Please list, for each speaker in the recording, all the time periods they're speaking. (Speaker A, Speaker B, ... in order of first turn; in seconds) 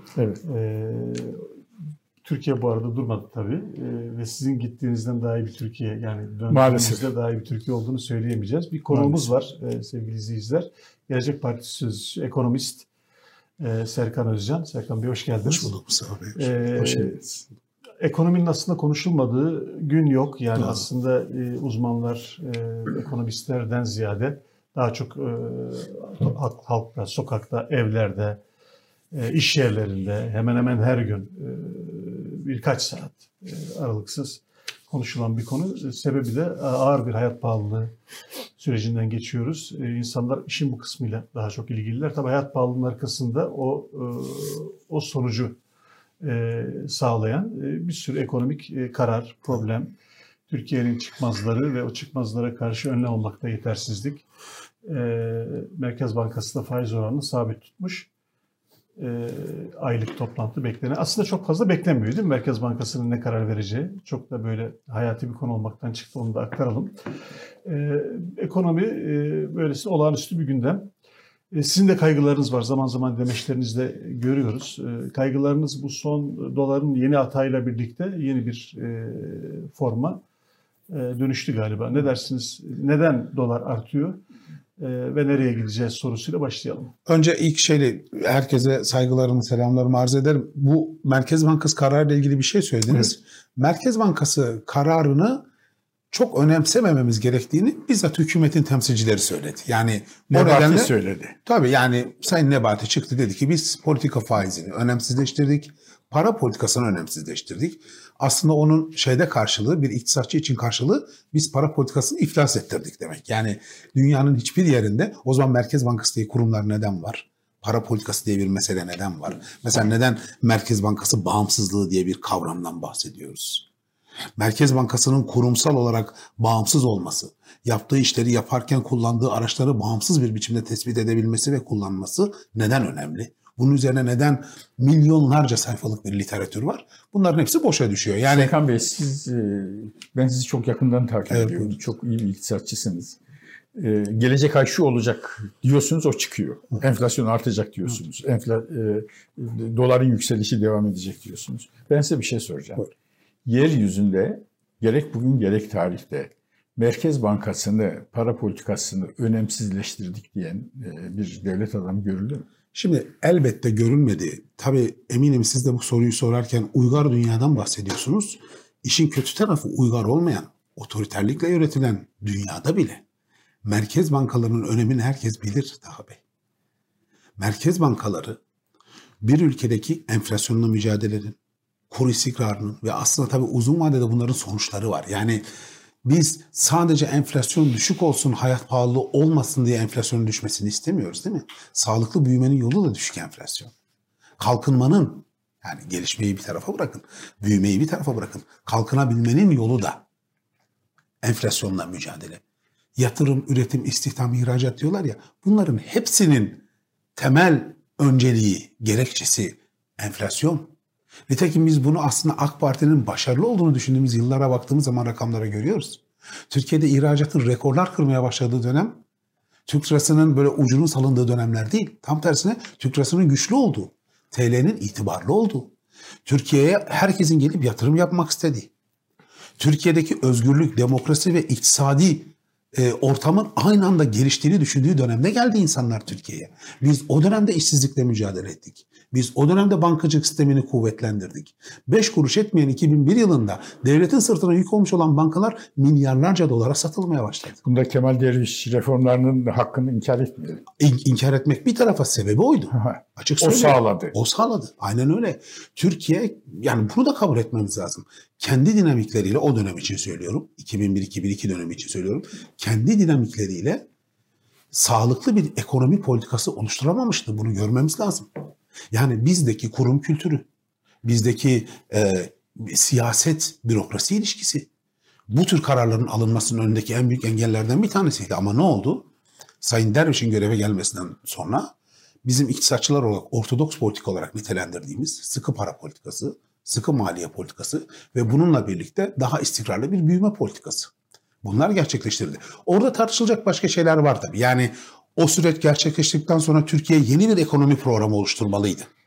Speaker A: 0.2-0.4, 6.5-7.0, 8.9-9.2, 100.3-101.3, 138.3-143.2, 143.8-152.9, 153.5-162.5, 247.6-250.6, 252.7-254.1
Speaker B: 0.4-1.5, 2.2-12.9, 13.6-15.7, 16.4-17.3, 18.0-28.4, 29.1-37.9, 38.6-45.6, 46.2-49.9, 50.5-54.2, 54.9-58.1, 59.0-67.0, 67.7-70.9, 71.5-80.2, 80.9-84.2, 84.8-86.9
Speaker C: 15.4-17.1, 20.6-20.8, 87.1-95.5, 96.1-100.9, 101.5-123.7, 124.4-138.5, 141.3-141.7, 162.7-173.0, 173.6-176.2, 177.4-178.4, 179.2-181.4, 181.9-185.4, 186.1-193.7, 194.4-200.0, 201.2-202.4, 203.0-206.6, 207.2-210.7, 211.3-219.0, 219.7-225.7, 226.3-228.7, 229.6-247.6, 250.8-263.9, 264.7-268.3, 268.9-270.5, 271.0-274.7, 275.3-279.1, 279.6-281.7, 282.2-290.9, 291.4-298.9